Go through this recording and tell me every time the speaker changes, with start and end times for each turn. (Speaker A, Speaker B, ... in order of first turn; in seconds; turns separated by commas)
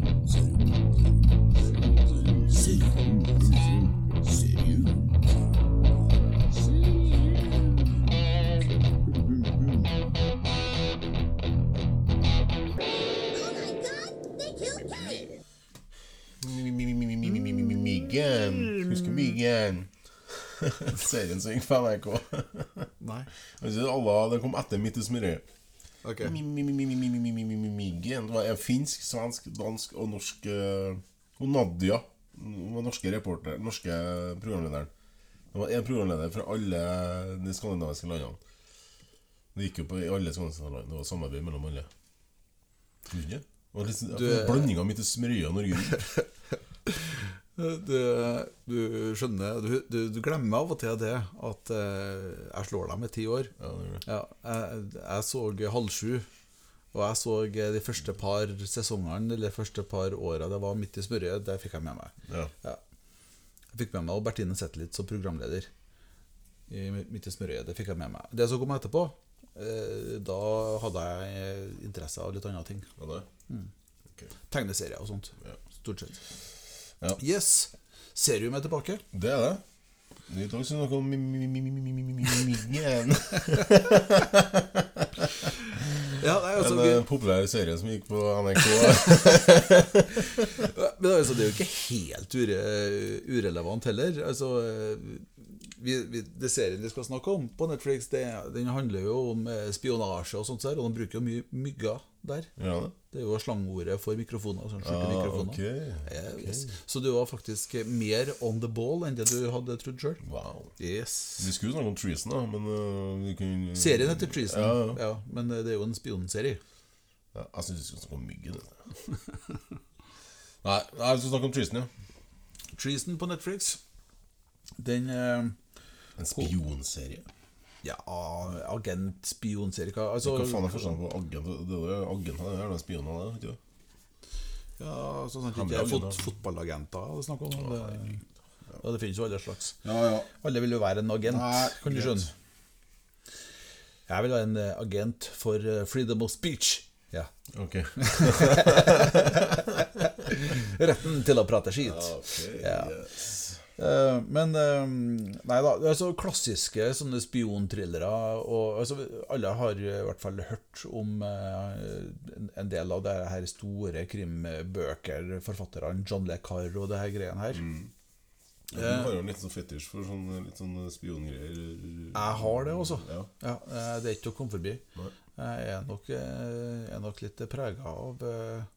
Speaker A: 2.2-2.9, Speaker A: 4.3-4.8, Speaker B: 4.3-4.6, Speaker B: 7.1-7.7, Speaker B: 9.2-9.8, Speaker C: 13.3-15.3, Speaker A: 16.4-19.9, Speaker A: 20.6-22.9, Speaker B: 23.0-23.3, Speaker A: 23.6-25.4, Speaker B: 26.0-26.4, Speaker A: 26.2-34.9, Speaker A: 35.5-38.4, Speaker A: 39.5-41.9, Speaker A: 43.1-46.0, Speaker B: 44.1-44.7, Speaker B: 46.0-46.2, Speaker B: 46.9-53.5, Speaker A: 53.6-54.0, Speaker B: 54.0-56.3, Speaker B: 56.9-62.8, Speaker B: 63.7-65.7, Speaker B: 66.7-72.9, Speaker A: 73.0-73.3, Speaker B: 74.5-76.2, Speaker B: 77.2-79.0, Speaker A: 79.1-79.6, Speaker A: 80.3-85.3, Speaker B: 86.1-87.0, Speaker A: 86.5-90.3, Speaker B: 88.7-102.5, Speaker A: 102.6-102.9, Speaker B: 103.1-110.2, Speaker A: 104.8-106.7, Speaker A: 110.2-110.8, Speaker B: 110.8-111.5, Speaker A: 111.4-115.0, Speaker B: 113.8-116.6, Speaker A: 117.3-118.8, Speaker A: 120.6-121.9, Speaker B: 122.7-123.8, Speaker B: 124.8-125.6, Speaker A: 126.2-127.2, Speaker B: 127.8-131.0, Speaker A: 130.2-133.6, Speaker B: 134.8-138.2, Speaker A: 135.5-136.2, Speaker B: 138.8-139.8, Speaker A: 139.8-140.3, Speaker B: 140.3-142.3, Speaker A: 141.3-142.3, Speaker B: 144.1-147.3, Speaker A: 147.5-149.9, Speaker B: 148.0-153.0, Speaker A: 151.8-153.6, Speaker B: 153.8-167.6, Speaker A: 167.5-167.9, Speaker A: 168.7-173.3, Speaker B: 168.7-169.1, Speaker B: 172.1-174.8, Speaker B: 175.4-178.7